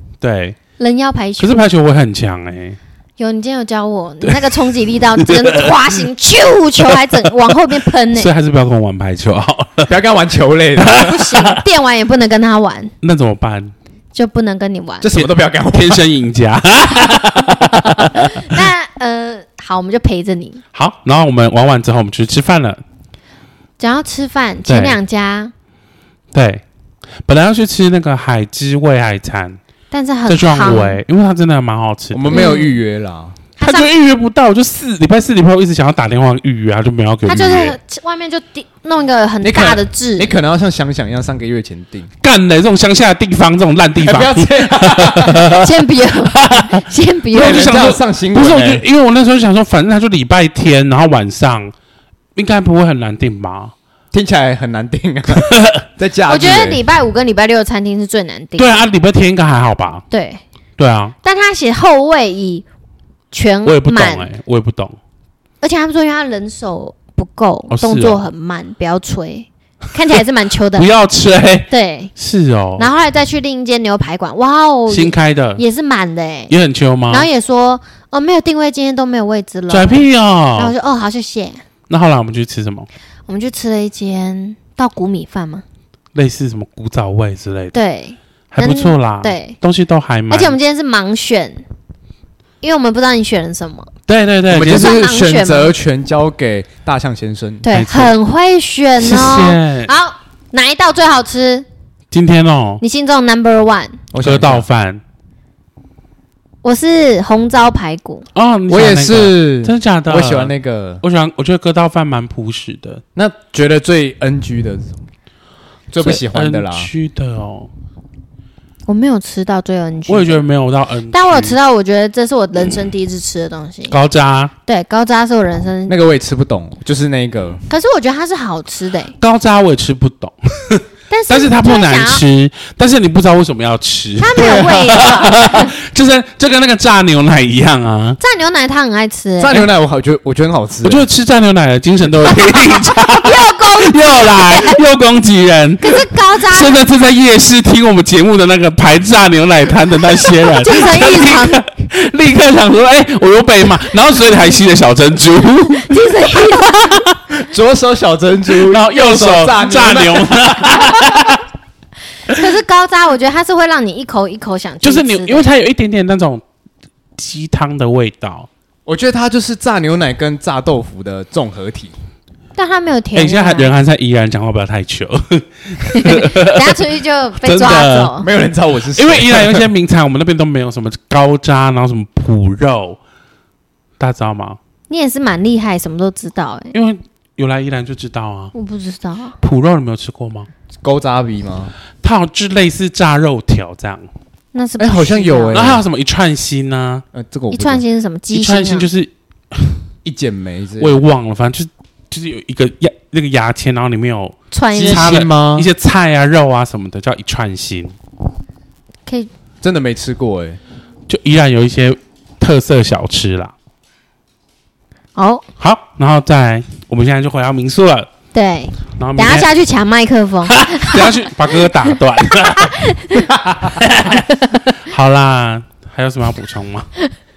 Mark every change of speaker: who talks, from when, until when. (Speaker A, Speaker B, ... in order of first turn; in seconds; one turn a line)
Speaker A: 0.2-0.6
Speaker B: 0.8-1.6
Speaker A: 1.4-2.8
Speaker B: 3.2-8.3
Speaker A: 4.2-4.7
Speaker A: 5.2-6.0
Speaker A: 8.1-9.9
Speaker C: 9.9-11.2
Speaker A: 10.8-11.6
Speaker B: 10.9-12.9
Speaker A: 13.0-13.7
Speaker B: 14.2-15.1
Speaker C: 15.0-16.0
Speaker A: 15.1-18.2
Speaker B: 18.1-20.6
Speaker A: 20.7-22.8
Speaker B: 23.8-25.5
Speaker A: 24.7-25.0
Speaker A: 26.3-26.6
Speaker A: 27.2-29.6
Speaker B: 29.9-31.0
Speaker A: 30.3-32.5
Speaker C: 32.1-33.4
Speaker B: 32.3-32.8
Speaker B: 33.6-33.9
Speaker A: 33.6-37.8
Speaker B: 37.3-40.3
Speaker C: 39.4-42.1
Speaker A: 42.2-45.7
Speaker C: 44.0-45.6
Speaker B: 45.5-47.7
Speaker A: 46.2-51.7
Speaker C: 47.3-48.9
Speaker A: 52.4-53.7
Speaker C: 54.1-56.8
Speaker A: 55.4-55.8
Speaker B: 56.3-58.8
Speaker A: 58.6-60.0
Speaker B: 60.1-60.4
Speaker A: 60.8-61.2
Speaker B: 61.2-62.6
Speaker B: 63.3-64.3
Speaker A: 63.6-65.0
Speaker B: 65.6-70.9
Speaker A: 67.7-68.2
Speaker A: 70.8-72.9
Speaker B: 71.7-72.1
Speaker B: 72.8-76.5
Speaker A: 74.9-75.6
Speaker A: 76.5-77.3
Speaker B: 77.1-81.6
Speaker A: 79.7-80.7
Speaker A: 81.9-82.9
Speaker B: 83.3-85.6
Speaker A: 86.1-87.8
Speaker B: 87.7-89.6
Speaker A: 88.5-90.6
Speaker B: 90.3-91.6
Speaker B: 92.6-93.9
Speaker A: 94.1-95.0
Speaker C: 94.5-97.7
Speaker B: 94.7-95.7
Speaker B: 97.6-101.7
Speaker A: 97.7-98.1
Speaker A: 99.0-99.9
Speaker A: 102.1-102.8
Speaker B: 102.8-104.0
Speaker C: 104.1-104.7
Speaker A: 104.2-105.0
Speaker B: 106.6-108.2
Speaker A: 108.3-113.0
Speaker C: 108.7-111.0
Speaker C: 113.2-115.0
Speaker C: 115.9-116.9
Speaker A: 116.0-117.7
Speaker B: 118.9-120.4
Speaker A: 120.1-121.6
Speaker B: 121.1-124.0
Speaker A: 123.9-124.5
Speaker B: 124.7-126.0
Speaker C: 125.9-127.6
Speaker B: 127.7-129.2
Speaker A: 129.2-138.2
Speaker B: 131.1-132.2
Speaker B: 134.2-135.7
Speaker C: 134.4-135.0
Speaker B: 138.2-139.7
Speaker C: 139.4-141.1
Speaker A: 140.8-157.0
Speaker B: 142.4-144.8
Speaker B: 145.8-146.8
Speaker B: 150.6-151.6
Speaker B: 155.8-157.1
Speaker C: 157.4-160.8
Speaker A: 158.7-161.4
Speaker B: 162.3-165.5
Speaker A: 164.8-166.4
Speaker A: 167.2-168.5
Speaker C: 168.9-171.9
Speaker B: 172.6-173.7
Speaker A: 173.2-176.8
Speaker B: 175.8-178.3
Speaker A: 177.4-178.1
Speaker C: 178.2-179.7
Speaker A: 178.9-183.0
Speaker A: 184.0-184.6
Speaker B: 184.9-186.8
Speaker A: 186.7-188.5
Speaker B: 188.5-189.4
Speaker A: 189.4-190.5
Speaker C: 190.8-191.7
Speaker A: 192.0-194.1
Speaker B: 194.5-195.7
Speaker C: 194.8-195.8
Speaker A: 195.5-197.0
Speaker C: 197.1-197.8
Speaker B: 197.5-198.9
Speaker A: 198.3-199.8
Speaker C: 200.1-201.0
Speaker A: 200.8-207.9
Speaker B: 204.5-205.1
Speaker C: 204.7-205.7
Speaker C: 209.6-210.6
Speaker A: 211.1-213.5
Speaker B: 215.2-215.4
Speaker A: 215.6-218.1
Speaker B: 218.3-223.3
Speaker A: 219.0-219.5
Speaker A: 220.5-222.8
Speaker C: 223.3-223.8
Speaker A: 223.8-224.3
Speaker B: 224.1-224.7
Speaker A: 224.8-226.9